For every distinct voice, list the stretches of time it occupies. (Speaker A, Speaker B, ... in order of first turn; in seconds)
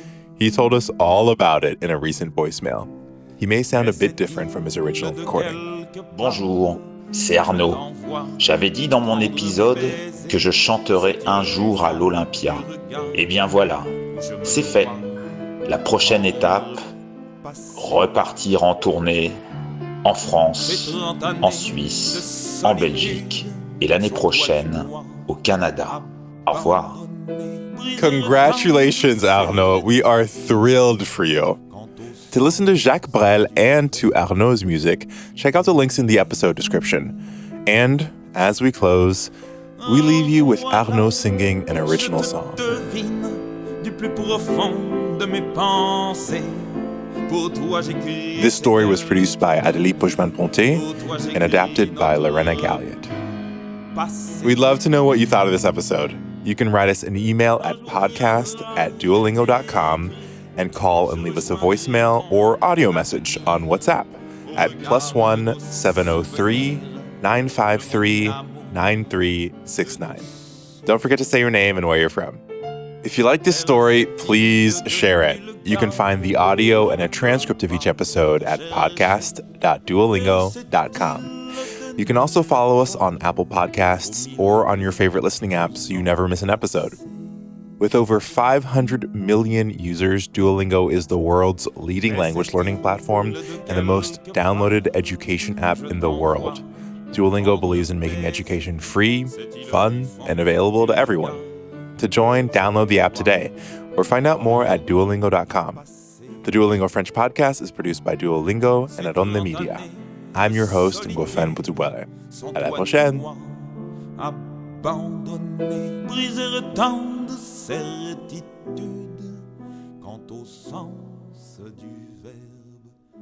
Speaker A: 0.4-5.6, 28.0-31.6, 32.3-37.2, 37.7-39.3, 39.9-42.7, 48.4-53.1, 54.4-70.3, 70.8-72.4, 73.0-81.4, 82.0-87.0, 87.8-101.4, 102.0-105.8, 106.4-113.3
Speaker B: 3.7-13.2, 14.1-15.2, 15.7-16.9, 17.4-18.2, 20.6-25.3, 25.9-30.1, 31.7-34.1, 39.8-49.4, 50.7-52.9, 53.9-54.7, 57.6-63.8, 64.5-69.0, 69.8-70.3, 73.5-79.4, 80.1-87.0, 92.0-96.7, 97.2-101.5, 102.5-103.5, 104.2-106.7, 108.9-119.5, 120.0-123.0
Speaker C: 6.2-7.8, 8.4-13.9, 14.4-15.0, 15.7-16.8, 17.8-19.4, 20.0-27.0